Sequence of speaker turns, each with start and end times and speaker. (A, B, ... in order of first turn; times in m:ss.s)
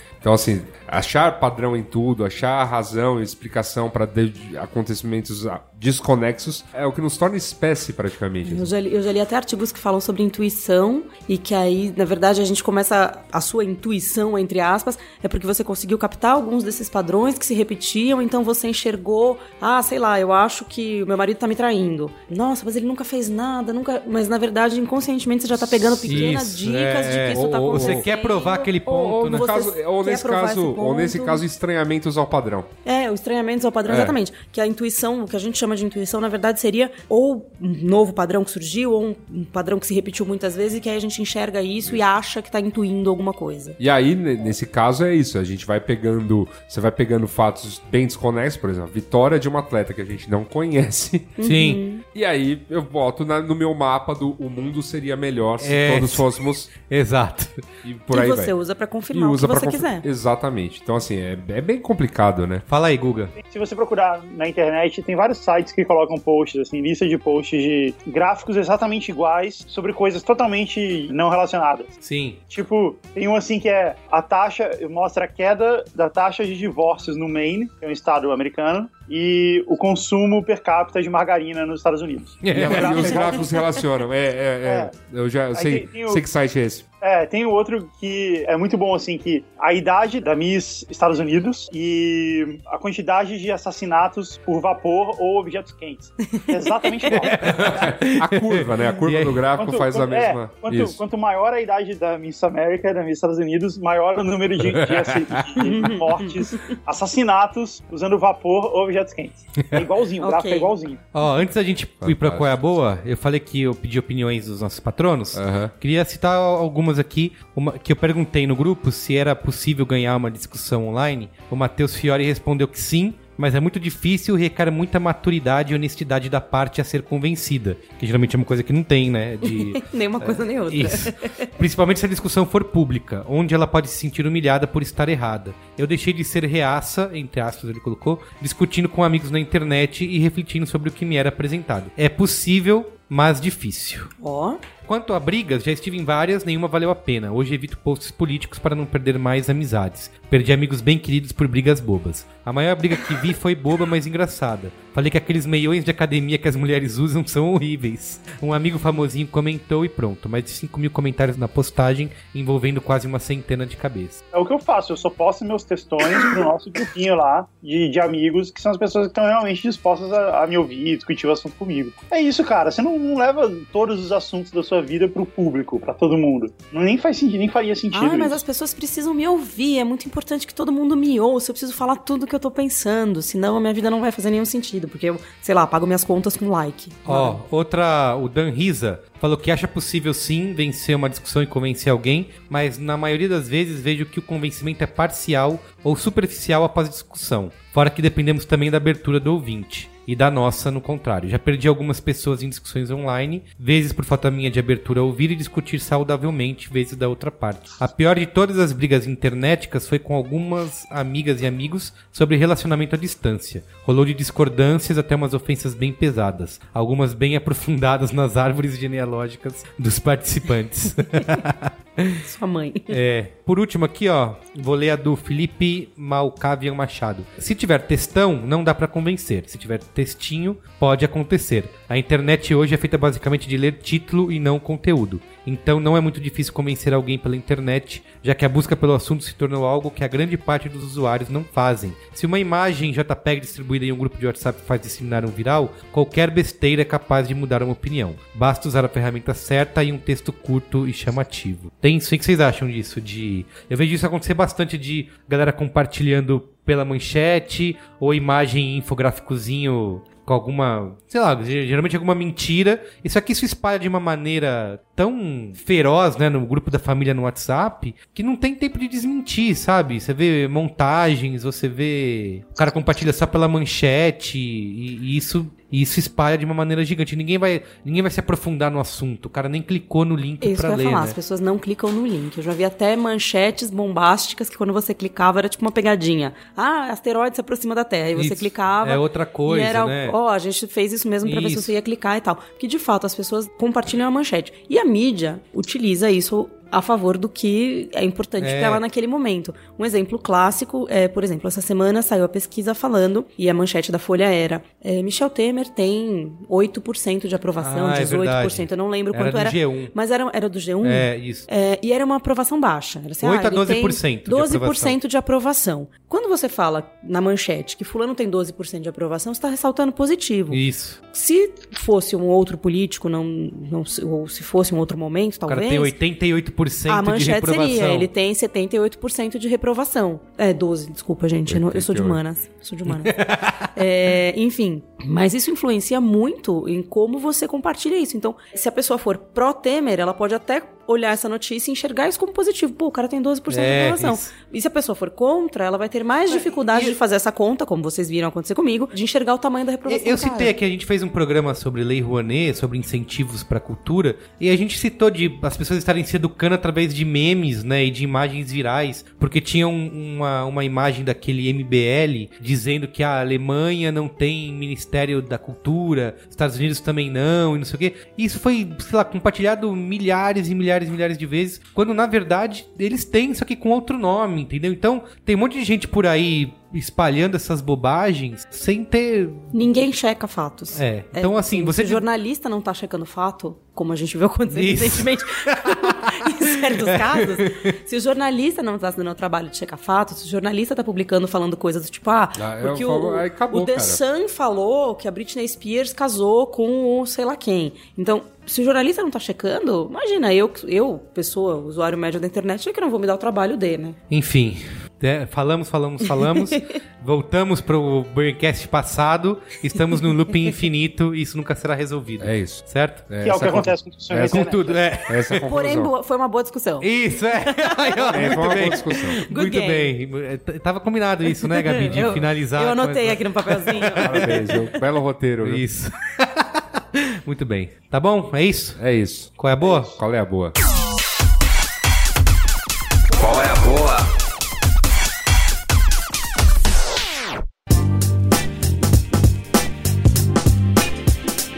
0:00.2-0:08.7 A
0:08.5-0:31.4 B
0:26.0-0:29.5 C
0:26.0-0:26.4 A
0:27.4-0:28.1 A
0:28.9-0:32.7 A
0:32.8-0:43.8 B
0:33.9-0:34.2 A
0:43.8-0:51.3 A
0:51.4-0:52.0 B
0:51.4-0:51.8 C
0:52.2-0:56.7 A
0:55.6-0:57.7 C
0:57.8-0:58.5 A
0:58.1-1:00.1 B
0:59.1-1:02.6 A
1:02.7-1:03.4 C
1:03.4-1:11.9 D
1:12.0-1:12.4 C
1:12.5-1:23.6 D
1:22.4-1:23.3 C
1:22.5-1:26.8 A
1:24.6-1:24.9 D
1:25.5-1:26.2 D
1:27.0-1:37.9 D
1:36.3-1:37.2 B
1:37.1-1:39.5 C
1:37.4-1:41.0 A
1:39.6-1:51.0 D
1:44.6-1:45.7 A
1:45.6-1:46.7 B
1:50.2-1:50.7 B
1:51.1-2:24.1 C
1:52.0-1:52.5 A
1:55.3-1:55.7 A
2:09.4-2:11.5 B
2:24.2-2:24.6 B
2:24.9-2:44.2 C
2:44.3-2:58.4 D
2:57.9-3:07.4 B
3:07.1-3:42.2 C
3:42.2-3:43.0 B
3:42.9-4:41.2 C
4:40.4-5:20.6 B
4:48.2-4:50.2 C
4:51.2-4:51.8 C
4:58.4-4:58.8 C
5:07.6-5:09.9 C
5:10.8-5:11.4 C
5:13.2-5:15.0 C
5:20.5-5:21.0 C
5:21.1-5:26.0 B
5:25.5-5:28.1 C
5:26.9-5:50.6 B
5:31.5-5:32.2 A
5:32.9-5:33.8 C
5:43.5-5:44.3 C
5:46.3-5:47.0 C
5:49.9-6:19.5 C
6:19.5-6:44.0 B
6:20.7-6:22.0 C
6:24.5-6:27.7 C
6:32.4-6:34.0 A
6:44.1-6:53.1 C
6:46.2-6:46.6 B
6:52.2-6:55.9 A
6:53.2-6:54.8 D
6:54.2-6:55.4 C
6:55.4-7:00.0 B
6:56.8-7:04.6 C
6:58.1-6:59.2 A
7:01.4-7:04.5 B
7:04.0-7:05.6 A
7:05.4-7:08.8 C
7:08.8-7:10.6 A
7:09.4-7:10.0 C
7:13.2-7:13.8 A